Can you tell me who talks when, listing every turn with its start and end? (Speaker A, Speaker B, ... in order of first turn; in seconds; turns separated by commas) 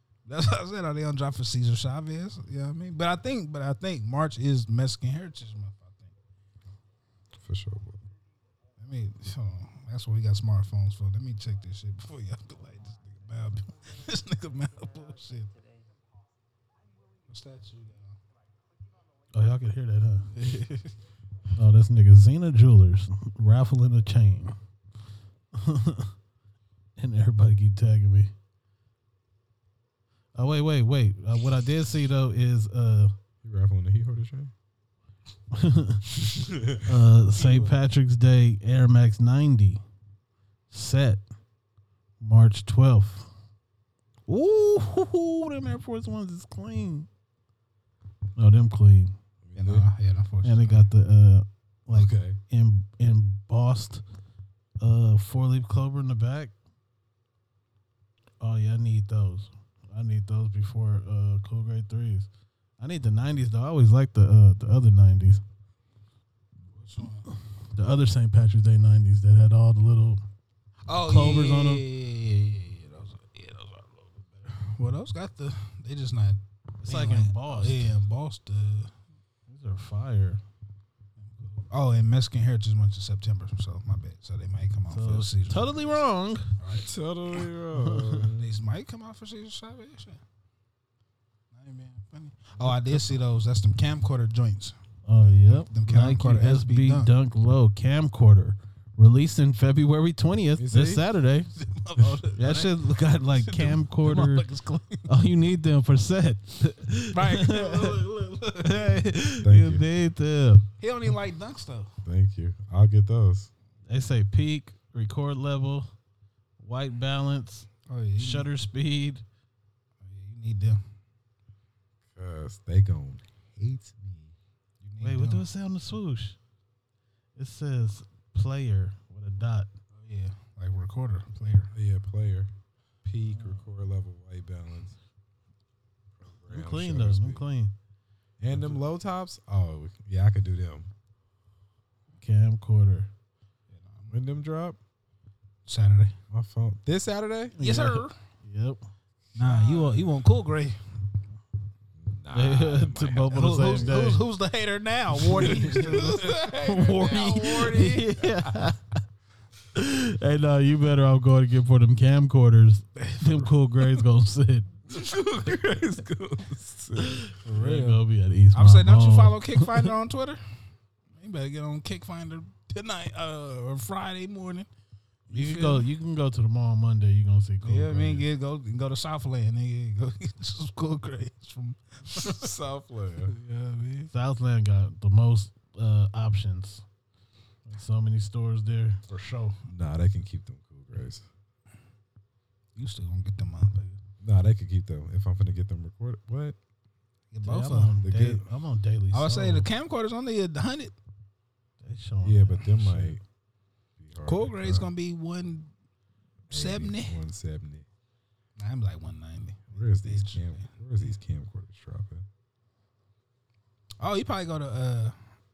Speaker A: 0.2-6.1, Speaker B: 7.4-8.0, Speaker A: 8.8-15.6, Speaker A: 17.2-18.2, Speaker C: 19.3-20.3, Speaker A: 20.3-20.9, Speaker C: 21.5-24.5, Speaker C: 25.5-26.1, Speaker C: 27.0-28.3, Speaker C: 30.3-33.1, Speaker B: 33.4-34.5, Speaker C: 35.5-36.1, Speaker B: 36.2-36.9, Speaker C: 36.8-39.8, Speaker A: 37.3-37.7, Speaker C: 40.7-41.2, Speaker C: 42.2-43.3, Speaker C: 44.3-47.1, Speaker C: 48.4-49.1, Speaker B: 49.4-49.9, Speaker A: 49.5-50.9, Speaker C: 50.4-54.0, Speaker B: 51.9-52.4, Speaker C: 54.8-56.5, Speaker C: 58.4-65.4, Speaker A: 66.7-67.3, Speaker C: 67.7-70.2, Speaker A: 70.9-78.9, Speaker C: 71.0-71.8, Speaker C: 76.8-77.9, Speaker C: 79.5-80.4, Speaker A: 81.2-86.0, Speaker C: 84.9-86.5, Speaker A: 86.6-86.9, Speaker B: 86.8-88.4, Speaker C: 87.7-88.2, Speaker A: 88.3-90.2, Speaker A: 91.5-97.1, Speaker C: 95.0-101.5, Speaker B: 100.5-101.1, Speaker A: 101.5-105.1, Speaker C: 102.3-104.5, Speaker C: 105.0-110.7, Speaker A: 107.1-109.0, Speaker B: 109.4-109.8, Speaker A: 110.8-111.9, Speaker B: 112.0-113.5, Speaker C: 113.8-115.9, Speaker C: 116.6-119.2, Speaker A: 117.9-118.5, Speaker A: 120.0-120.8, Speaker B: 122.1-124.3, Speaker A: 124.8-125.5, Speaker C: 125.0-126.4, Speaker C: 127.3-129.7, Speaker A: 129.9-131.7, Speaker B: 131.7-132.5, Speaker B: 133.0-135.0, Speaker C: 133.2-133.6, Speaker B: 136.2-137.4, Speaker C: 136.5-137.7, Speaker B: 138.4-140.9, Speaker C: 138.5-138.8, Speaker C: 142.2-143.1, Speaker A: 143.7-144.2, Speaker B: 144.1-144.8, Speaker A: 145.7-146.2, Speaker B: 146.3-147.6, Speaker C: 147.5-148.9, Speaker A: 147.6-148.1, Speaker A: 149.3-150.8, Speaker B: 149.4-150.1, Speaker B: 152.0-153.8, Speaker C: 152.3-154.2, Speaker A: 153.3-158.1, Speaker C: 155.2-158.8, Speaker B: 155.3-158.1, Speaker C: 159.7-164.7, Speaker A: 163.0-163.8, Speaker B: 164.9-167.4, Speaker C: 167.3-169.9, Speaker A: 167.5-168.0, Speaker A: 168.5-170.4, Speaker A: 171.1-174.7, Speaker A: 175.3-175.9, Speaker C: 175.3-178.3, Speaker A: 177.6-182.5, Speaker B: 182.1-183.3, Speaker A: 183.3-184.1, Speaker C: 184.1-186.8, Speaker C: 187.7-189.6, Speaker B: 189.7-191.2, Speaker A: 192.8-194.0, Speaker B: 194.2-196.6, Speaker A: 197.3-198.1, Speaker C: 197.4-199.7, Speaker B: 198.0-198.4, Speaker A: 199.1-200.9, Speaker C: 201.8-203.2, Speaker B: 202.2-203.2, Speaker B: 204.0-204.9, Speaker A: 204.2-205.7, Speaker B: 206.5-207.8, Speaker A: 206.5-207.2, Speaker A: 208.6-211.2, Speaker B: 209.7-212.2, Speaker A: 214.0-215.2